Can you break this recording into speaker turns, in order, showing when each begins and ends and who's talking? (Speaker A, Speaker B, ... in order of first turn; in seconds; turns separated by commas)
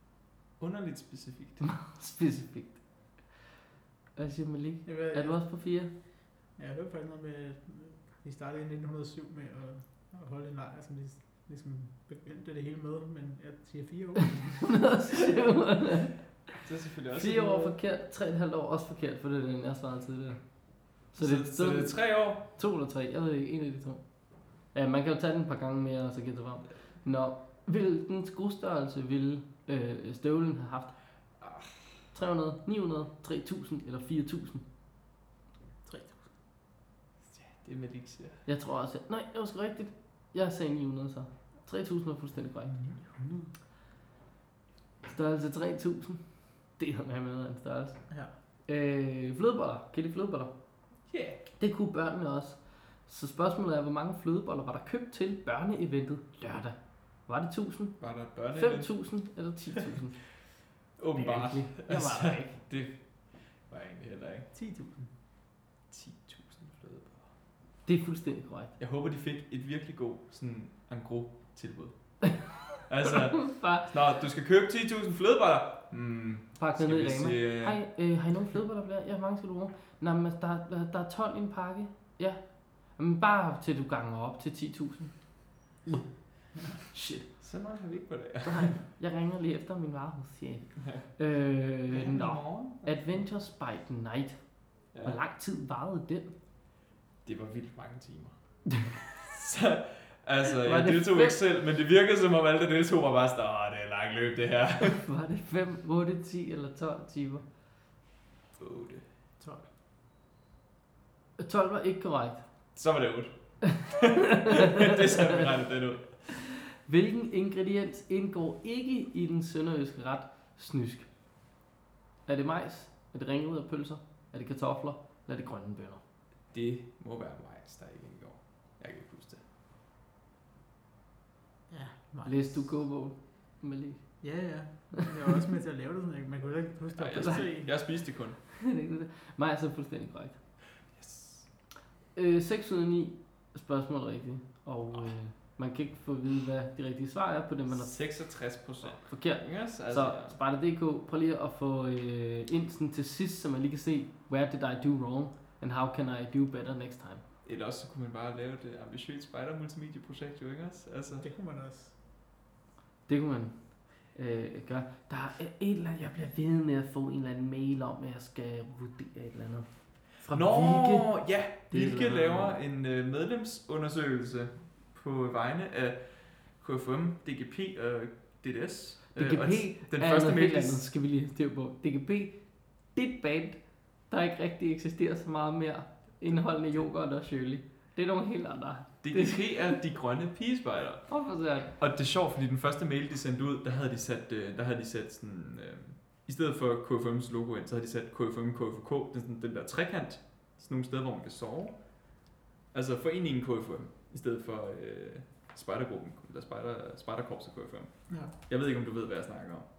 Speaker A: 0.6-1.6, Speaker B: 1.6-2.8, Speaker B: 4.2-5.9, Speaker C: 4.9-5.4, Speaker C: 6.6-14.9, Speaker B: 14.6-16.2, Speaker A: 16.6-17.8, Speaker B: 17.1-24.0, Speaker A: 21.2-22.4, Speaker B: 24.7-31.0, Speaker A: 31.4-31.7, Speaker B: 32.1-34.6, Speaker C: 35.8-36.3, Speaker A: 37.3-38.4, Speaker B: 38.5-42.8, Speaker C: 42.7-43.5, Speaker B: 45.0-46.2, Speaker B: 46.8-48.0, Speaker B: 48.7-50.5, Speaker A: 51.1-51.4, Speaker B: 51.6-60.2, Speaker A: 58.0-58.9, Speaker A: 61.0-64.5, Speaker B: 61.1-62.6, Speaker C: 64.5-65.1, Speaker A: 65.9-67.3, Speaker B: 67.8-68.7, Speaker A: 68.8-77.8, Speaker B: 73.4-73.9, Speaker B: 76.6-85.1, Speaker B: 86.9-87.3, Speaker A: 87.4-88.8, Speaker B: 88.5-94.4, Speaker A: 91.9-92.9, Speaker A: 94.9-95.2, Speaker B: 95.0-96.3, Speaker A: 97.2-98.4, Speaker A: 99.1-105.0, Speaker B: 100.6-101.4, Speaker B: 105.0-107.5, Speaker A: 108.6-109.0, Speaker C: 109.4-109.7, Speaker B: 111.4-112.4, Speaker A: 112.8-116.3, Speaker B: 114.0-115.4, Speaker B: 116.3-121.1, Speaker B: 122.3-126.0, Speaker A: 126.5-129.4, Speaker C: 131.7-132.7, Speaker B: 132.2-134.2, Speaker C: 134.2-137.7, Speaker A: 136.9-138.4, Speaker B: 137.2-137.4, Speaker B: 138.5-140.4, Speaker A: 140.9-141.5, Speaker B: 142.2-148.0, Speaker A: 147.7-150.4, Speaker B: 148.9-157.2, Speaker A: 157.4-161.3, Speaker C: 161.2-161.9, Speaker B: 163.1-172.6, Speaker A: 170.3-180.9, Speaker B: 179.2-189.8, Speaker A: 189.0-201.9, Speaker B: 191.1-191.7, Speaker A: 202.7-209.7, Speaker C: 208.1-208.3